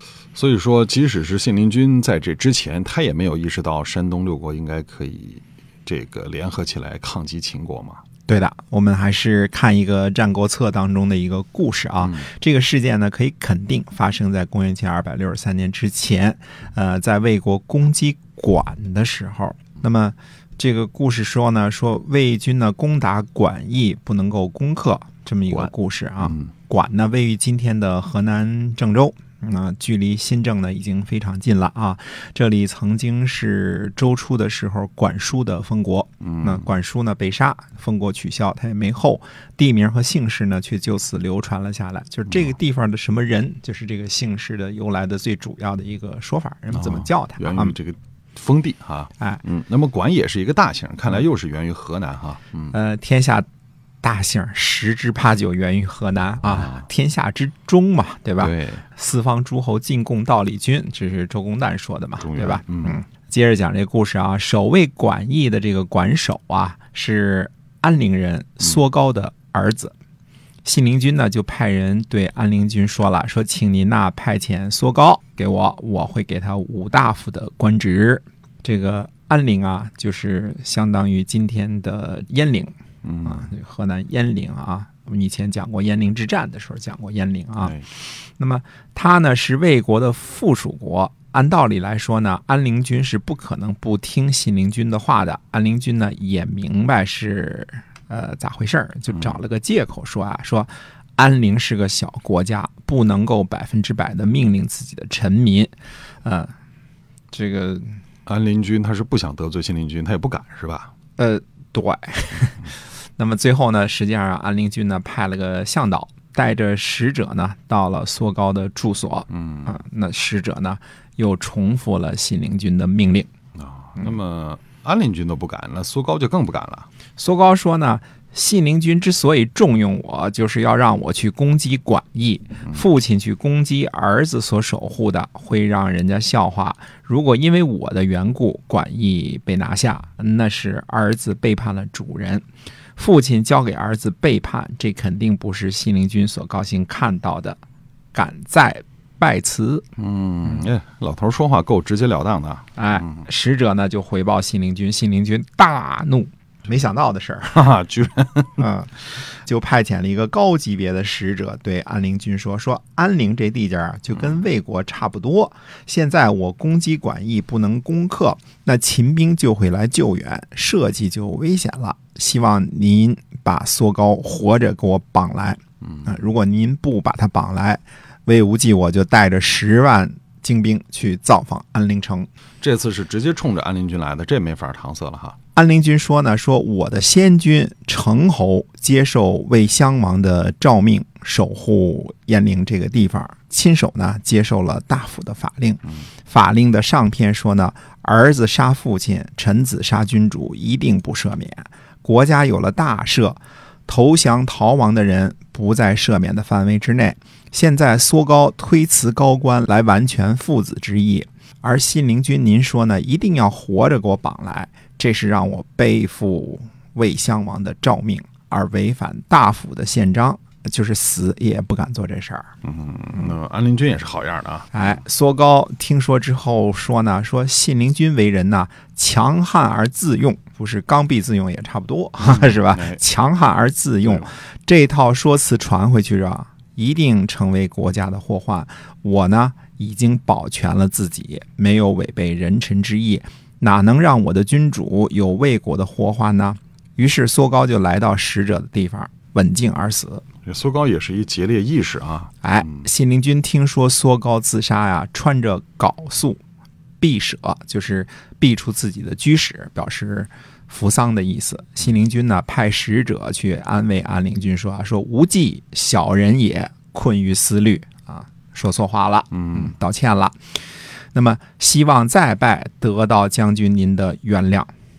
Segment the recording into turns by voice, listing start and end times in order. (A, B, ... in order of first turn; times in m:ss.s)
0:00.3-0:08.0 A
0:08.3-0:47.8 B
0:12.0-0:12.3 A
0:26.2-0:26.5 A
0:36.2-0:36.7 A
0:46.7-0:52.8 A
0:52.7-0:53.4 B
0:54.0-1:09.9 B
0:56.4-0:56.8 A
0:58.4-0:58.8 A
1:02.2-1:03.0 A
1:10.6-1:45.7 B
1:23.0-1:23.5 A
1:27.6-1:27.9 A
1:46.2-1:46.5 B
1:47.3-1:48.0 B
1:48.2-1:50.9 A
1:51.2-2:03.3 B
1:59.3-1:59.7 A
2:03.6-2:06.9 A
2:07.2-2:22.4 B
2:23.0-2:27.6 B
2:28.1-2:29.8 B
2:30.0-2:33.2 A
2:32.8-2:37.7 B
2:37.5-2:38.6 A
2:38.6-3:02.3 B
3:02.6-3:05.4 A
3:05.5-3:42.5 B
3:42.6-3:44.9 A
3:44.7-4:10.2 B
3:52.2-3:53.0 A
4:10.4-4:12.3 A
4:12.4-4:16.4 B
4:17.0-4:30.4 B
4:29.3-4:29.7 A
4:31.1-4:34.7 B